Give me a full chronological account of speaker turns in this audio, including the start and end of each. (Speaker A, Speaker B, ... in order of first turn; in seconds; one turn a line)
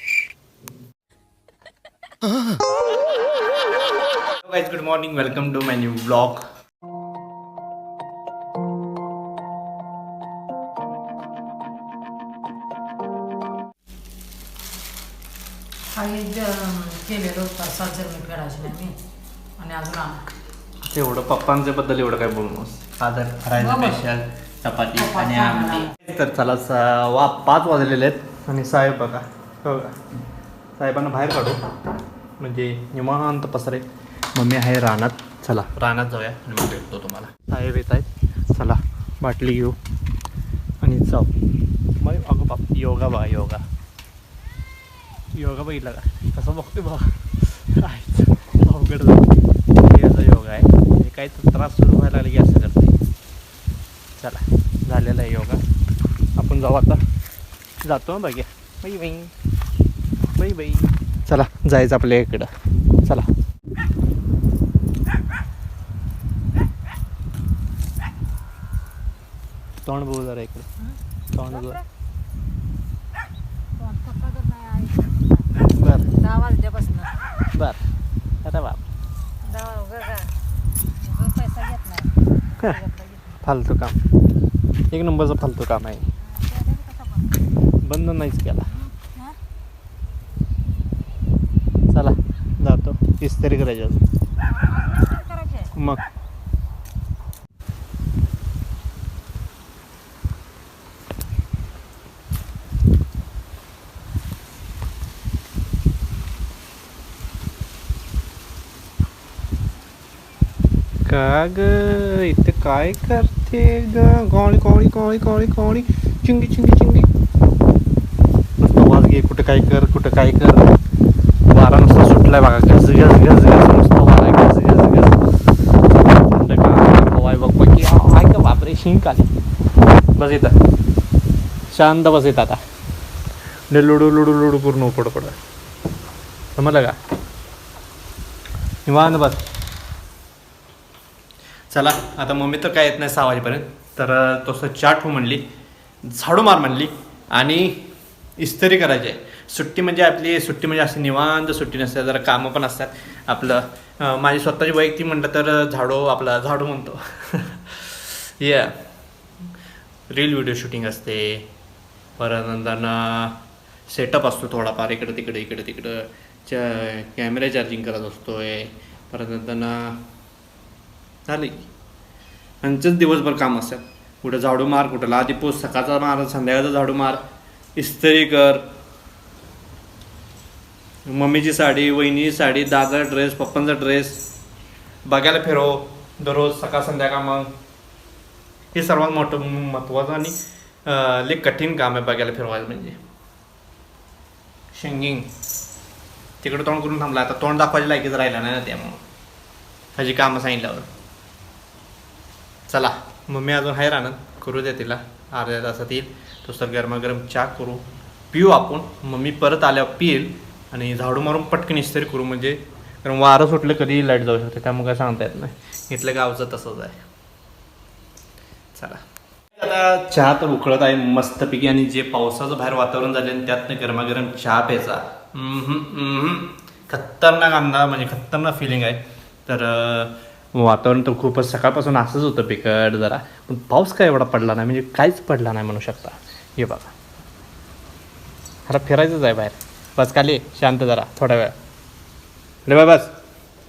Speaker A: 4.4-6.5
Speaker B: 15.9-19.0
Speaker B: 19.6-20.2
Speaker A: 20.9-30.0
Speaker B: 23.6-24.0
Speaker B: 25.0-25.9
Speaker A: 30.8-31.6
Speaker A: 32.4-39.8
Speaker A: 40.8-41.3
Speaker A: 42.0-43.6
Speaker A: 45.3-53.0
Speaker A: 54.2-55.6
Speaker A: 56.4-57.0
Speaker A: 57.8-59.3
Speaker A: 60.4-62.5
Speaker A: 63.0-63.3
Speaker A: 69.8-70.7
Speaker A: 71.3-71.8
Speaker B: 73.8-75.5
Speaker A: 75.6-76.1
Speaker B: 76.1-77.1
Speaker A: 77.5-77.8
Speaker A: 78.4-78.8
Speaker B: 79.4-80.3
Speaker B: 81.0-83.4
Speaker A: 83.4-84.0
Speaker A: 84.9-86.0
Speaker B: 86.2-87.3
Speaker A: 87.8-88.7
Speaker B: 89.0-89.4
Speaker A: 91.9-94.0
Speaker B: 94.6-95.7
Speaker A: 95.7-96.0
Speaker A: 111.0-117.1
Speaker A: 118.6-120.8
Speaker A: 121.5-125.4
Speaker A: 126.2-129.3
Speaker A: 130.2-130.6
Speaker A: 131.7-132.6
Speaker A: 133.7-135.4
Speaker A: 136.6-137.0
Speaker A: 138.8-139.4
Speaker A: 141.7-145.4
Speaker A: 146.0-147.8
Speaker A: 148.4-158.8
Speaker A: 160.1-161.5
Speaker A: 162.2-170.0
Speaker A: 171.3-171.7
Speaker A: 172.6-177.2
Speaker A: 177.8-178.7
Speaker A: 181.1-184.2
Speaker A: 185.1-187.5
Speaker A: 188.7-193.0
Speaker A: 194.7-195.3
Speaker A: 196.4-199.0
Speaker A: 200.0-200.9
Speaker A: 202.7-217.0
Speaker A: 218.7-219.0
Speaker A: 219.5-236.9
Speaker A: 238.7-241.6
Speaker A: 242.7-243.2